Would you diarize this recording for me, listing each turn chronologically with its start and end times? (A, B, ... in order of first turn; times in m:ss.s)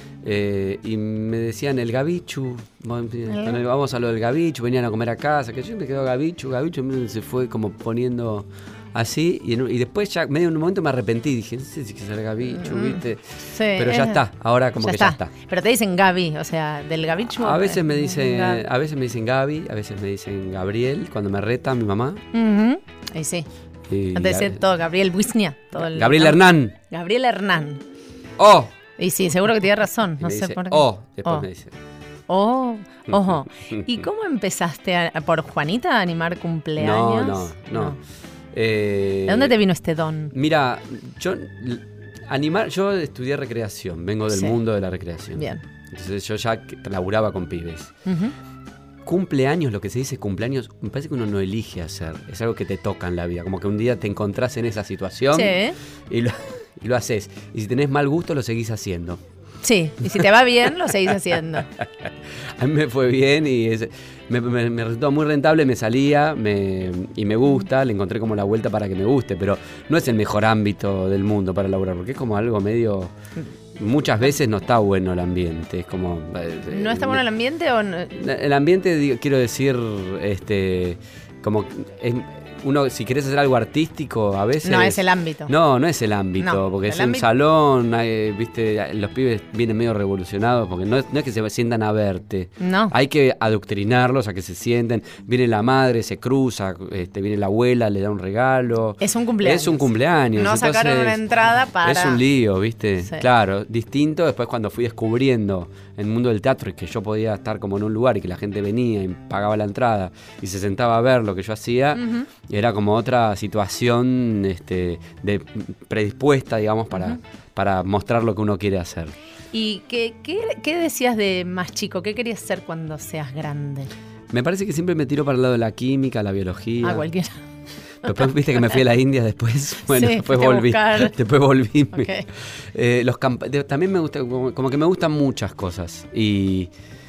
0:00.2-0:15.3 A
0:03.3-0:03.6 B
0:12.5-0:13.0 B
0:13.5-0:14.2 B
0:14.8-0:18.6 B
0:17.4-0:22.2 A
0:22.3-0:23.5 B
0:23.9-0:24.6 A
0:24.1-0:26.4 B
0:25.8-0:26.7 A
0:26.9-0:27.8 B
0:28.4-0:28.7 A
0:29.0-0:31.4 B
0:30.2-0:31.7 A
0:32.3-0:38.0 B
0:33.1-0:33.9 A
0:36.8-0:38.0 A
0:38.5-0:39.5 A
0:39.3-0:40.3 B
0:40.3-0:47.9 A
0:44.3-0:44.6 B
0:45.4-0:45.6 B
0:48.0-0:48.3 B
0:49.0-0:59.2 A
0:55.3-0:55.8 B
0:59.6-1:01.7 B
1:02.6-1:13.1 A
1:13.8-1:17.2 A
1:16.7-1:18.2 B
1:18.1-1:41.2 A
1:24.6-1:25.5 B
1:26.4-1:27.2 B
1:32.6-1:32.9 B
1:39.0-1:39.8 B
1:40.4-1:42.2 B
1:41.8-1:59.1 A
1:51.9-1:52.3 B
1:59.5-2:03.9 B
2:04.3-2:07.0 A
2:06.8-2:07.4 B
2:08.0-2:12.1 A
2:09.9-2:11.1 B
2:11.9-2:12.2 B
2:12.7-2:16.7 A